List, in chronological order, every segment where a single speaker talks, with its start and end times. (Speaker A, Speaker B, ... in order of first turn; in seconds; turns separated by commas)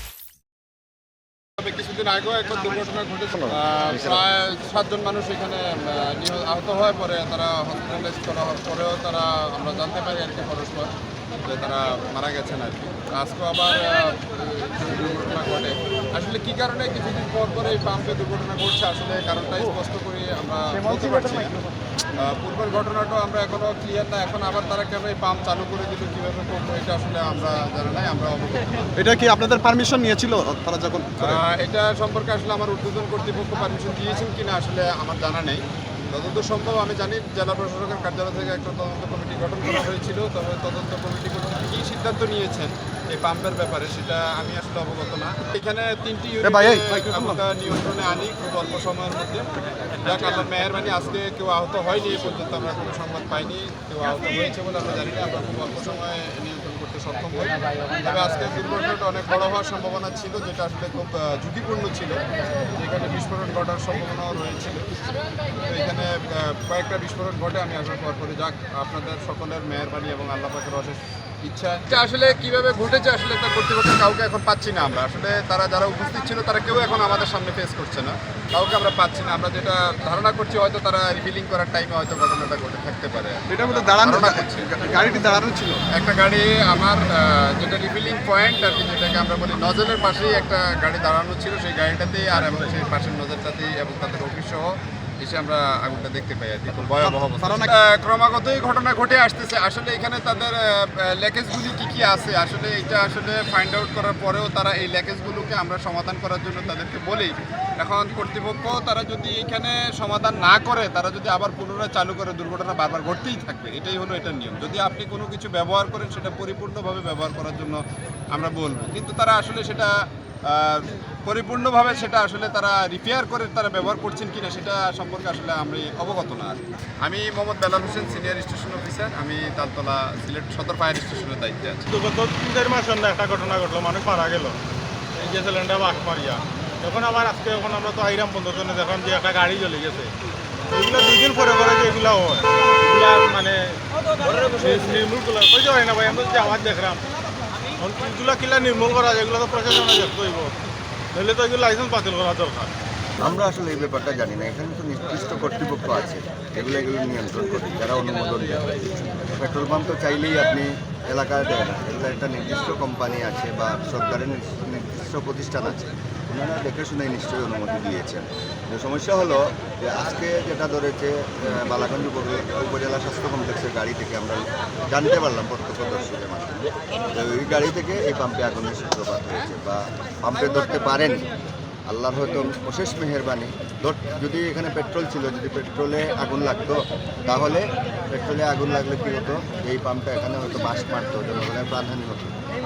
Speaker A: 1.6-21.6, Speaker A: 22.1-28.9, Speaker B: 28.9-31.4, Speaker A: 31.2-49.5, Speaker B: 46.4-47.4, Speaker A: 50.0-62.2, Speaker A: 62.7-64.9, Speaker A: 65.6-84.7, Speaker B: 83.5-85.8, Speaker A: 85.9-117.8, Speaker B: 96.9-97.7, Speaker A: 118.3-119.9, Speaker A: 120.5-131.8, Speaker C: 131.9-134.6, Speaker C: 135.2-140.1, Speaker C: 140.7-143.8, Speaker C: 144.5-147.0, Speaker C: 147.8-150.5, Speaker C: 151.1-152.7, Speaker D: 153.2-181.3, Speaker D: 181.8-192.3